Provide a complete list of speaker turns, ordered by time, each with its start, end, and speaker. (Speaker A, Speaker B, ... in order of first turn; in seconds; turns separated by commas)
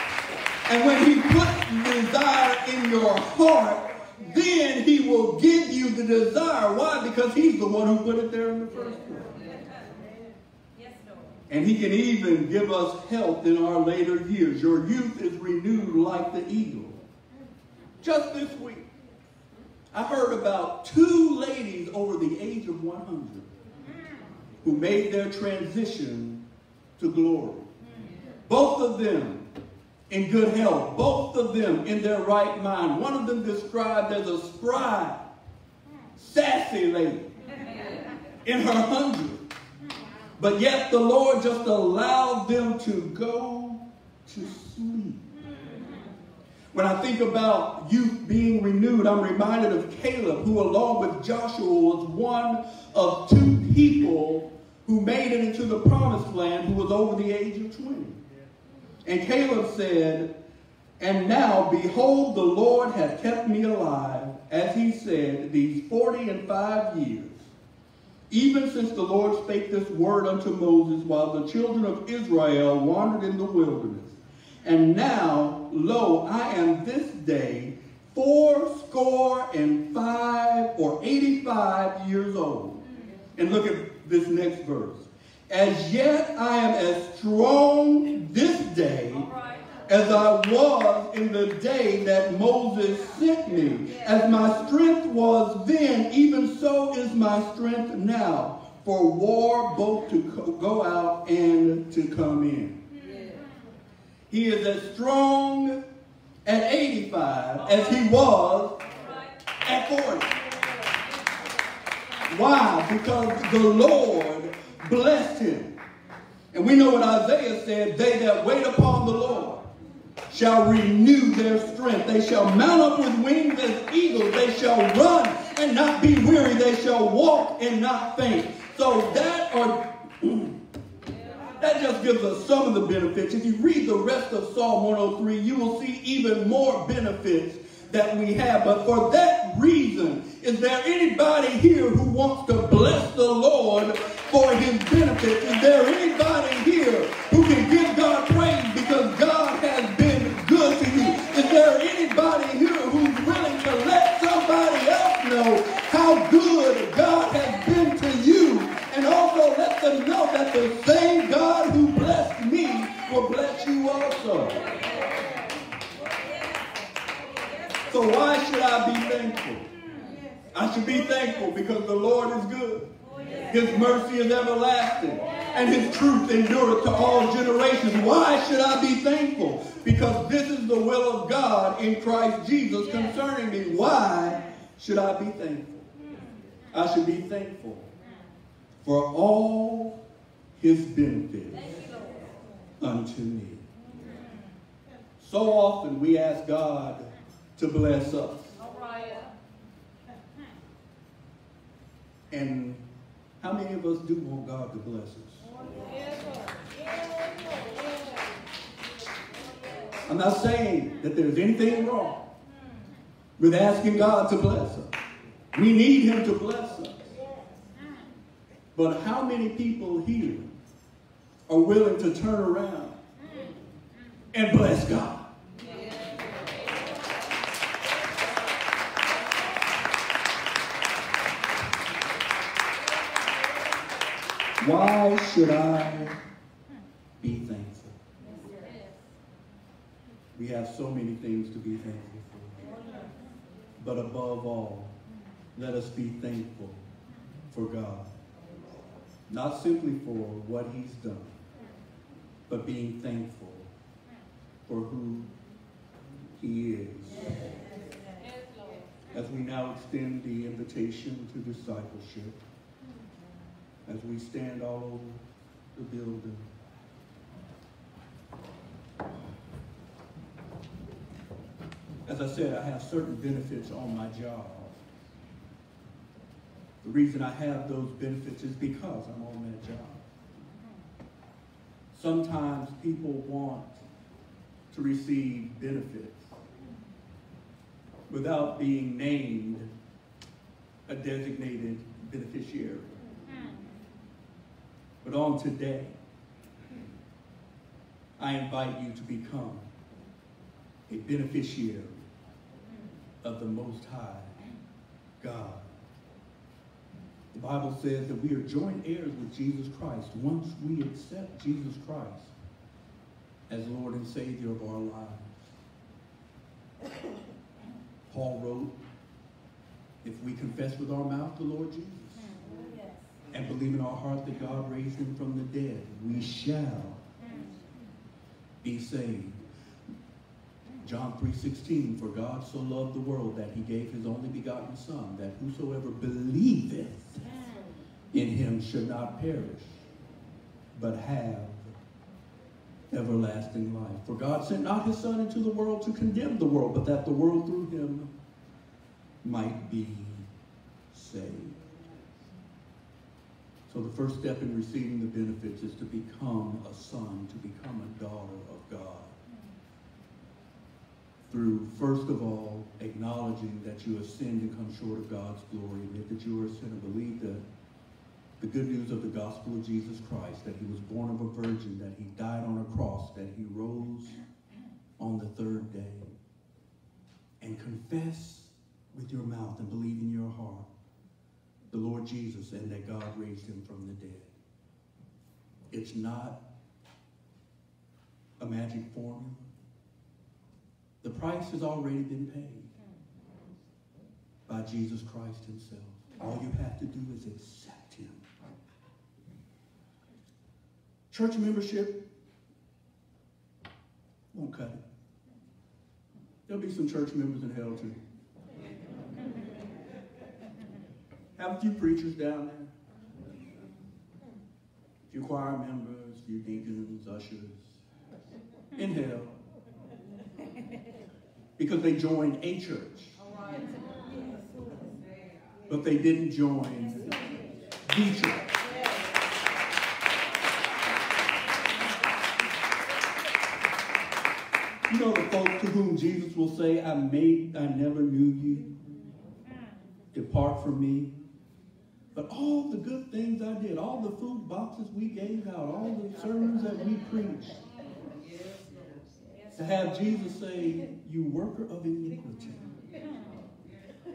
Speaker A: 0.7-9.3, Speaker B: 10.7-11.4, Speaker A: 11.5-17.0, Speaker A: 18.0-18.9, Speaker A: 19.9-23.5, Speaker A: 24.6-26.4, Speaker A: 27.0-27.7, Speaker A: 28.5-29.4, Speaker A: 30.1-35.2, Speaker A: 36.2-37.3, Speaker A: 38.4-39.4, Speaker A: 40.4-45.2, Speaker A: 46.7-58.2, Speaker A: 59.0-60.3, Speaker A: 61.0-67.5, Speaker A: 68.3-82.8, Speaker A: 83.3-89.3, Speaker B: 89.1-89.8, Speaker A: 89.9-102.8, Speaker B: 93.9-94.5, Speaker A: 104.3-105.8, Speaker A: 106.4-108.8, Speaker B: 108.9-109.3, Speaker A: 109.6-110.3, Speaker A: 112.3-115.7, Speaker A: 116.5-119.7, Speaker A: 120.3-130.5, Speaker A: 131.6-164.7, Speaker B: 164.6-165.3, Speaker B: 165.9-168.0, Speaker A: 167.9-169.7, Speaker A: 170.5-172.9, Speaker B: 173.0-173.6, Speaker A: 173.5-185.9, Speaker B: 175.3-175.7, Speaker A: 186.7-187.9, Speaker A: 188.8-189.9, Speaker A: 190.6-191.7, Speaker B: 191.5-192.4, Speaker A: 192.8-193.6, Speaker A: 195.2-198.5, Speaker B: 198.6-199.3, Speaker A: 202.3-202.8, Speaker A: 203.4-205.4, Speaker B: 205.6-207.6, Speaker B: 209.7-210.0, Speaker A: 210.1-212.2, Speaker A: 213.4-214.9, Speaker A: 215.5-217.1, Speaker A: 218.7-220.5, Speaker A: 221.5-223.0, Speaker A: 224.3-225.2, Speaker B: 225.6-225.9, Speaker A: 234.6-236.2, Speaker A: 237.2-238.0, Speaker B: 238.2-238.9, Speaker A: 240.3-242.7, Speaker B: 242.6-243.1, Speaker A: 243.8-244.9, Speaker A: 245.6-246.8, Speaker A: 247.5-248.1, Speaker A: 249.3-251.4, Speaker A: 252.5-253.7, Speaker A: 254.7-255.3, Speaker A: 256.4-257.4, Speaker B: 257.2-258.3, Speaker A: 259.1-262.4, Speaker A: 263.9-266.5, Speaker A: 272.1-274.8, Speaker A: 276.8-280.0, Speaker A: 281.9-283.8, Speaker A: 284.7-286.4, Speaker A: 288.1-289.7, Speaker A: 290.9-293.0, Speaker A: 295.0-295.9, Speaker A: 298.2-299.7, Speaker A: 300.9-302.0, Speaker A: 303.2-304.4, Speaker A: 305.2-305.7, Speaker A: 307.3-312.3, Speaker A: 313.5-315.4, Speaker A: 318.1-318.7, Speaker A: 320.0-322.3, Speaker B: 322.3-323.0, Speaker A: 323.3-327.0, Speaker B: 327.2-327.5, Speaker A: 328.6-329.4, Speaker A: 330.8-337.2, Speaker A: 338.1-339.8, Speaker A: 340.7-341.7, Speaker A: 342.9-348.1, Speaker A: 349.2-350.3, Speaker A: 350.9-351.6, Speaker A: 353.7-359.1, Speaker A: 361.3-367.4, Speaker A: 368.4-374.2, Speaker A: 375.0-376.1, Speaker A: 377.4-380.7, Speaker A: 381.7-384.3, Speaker A: 385.7-386.4, Speaker A: 388.4-389.5, Speaker A: 391.0-392.7, Speaker A: 394.5-398.2, Speaker A: 401.1-402.0, Speaker A: 404.3-404.8, Speaker A: 406.5-408.0, Speaker A: 411.4-412.7, Speaker A: 415.1-417.8, Speaker A: 418.7-419.4, Speaker A: 421.6-423.1, Speaker B: 423.2-424.2, Speaker A: 425.7-427.2, Speaker A: 427.8-428.4, Speaker A: 434.9-438.7, Speaker A: 440.1-441.1, Speaker A: 442.1-447.6, Speaker A: 449.5-452.6